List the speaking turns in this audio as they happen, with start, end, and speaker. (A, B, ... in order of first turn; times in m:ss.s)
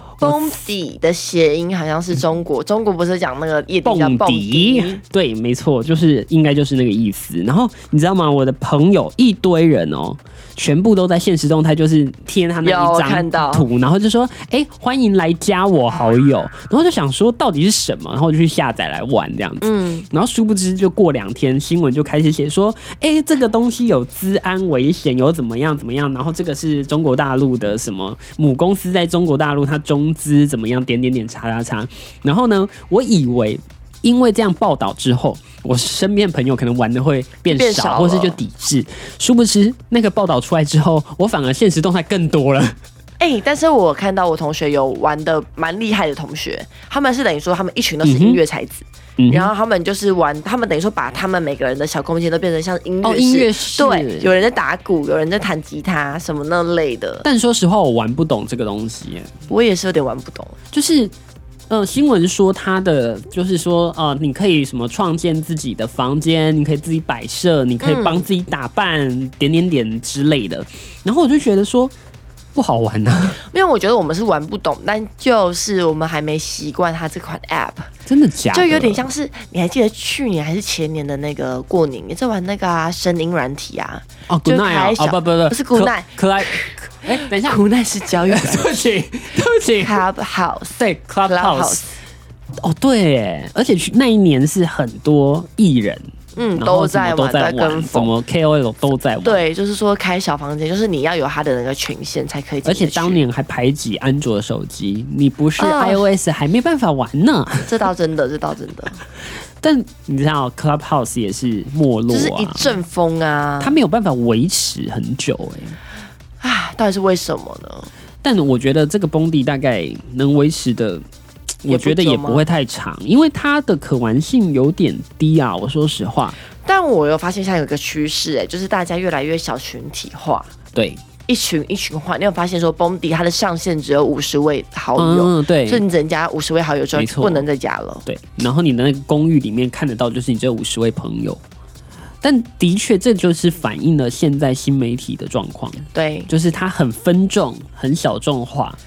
0:00.2-0:05.0 A
0:03.8-0:42.8 B
0:12.6-0:13.7 A
0:19.6-0:20.1 A
0:37.5-0:38.4 A
0:43.2-0:57.2 A
0:48.0-0:48.4 B
0:49.2-0:49.5 B
0:53.0-0:54.3 B
0:57.2-0:59.3 B
0:59.5-1:00.5 A
1:00.7-1:01.1 B
1:01.7-1:11.9 B
1:07.8-1:08.3 A
1:12.6-1:13.4 B
1:13.5-1:17.9 A
1:18.1-1:19.1 B
1:18.5-1:28.8 A
1:24.3-1:27.6 B
1:28.3-1:30.0 B
1:29.8-1:31.9 A
1:30.8-1:31.8 B
1:32.6-1:39.4 B
1:36.4-1:38.1 A
1:39.2-1:43.2 A
1:42.6-1:47.7 B
1:45.6-1:46.0 A
1:47.7-1:49.0 A
1:49.6-1:52.8 B
1:52.1-1:53.8 A
1:53.6-1:55.8 B
1:56.4-1:57.9 A
1:58.2-2:01.0 B
2:01.6-2:06.4 B
2:01.7-2:02.5 A
2:06.6-2:10.5 A
2:10.7-2:11.0 B
2:11.3-2:18.0 A
2:15.0-2:15.8 B
2:17.0-2:17.4 B
2:18.1-2:21.4 B
2:22.2-2:28.8 B
2:25.9-2:26.3 A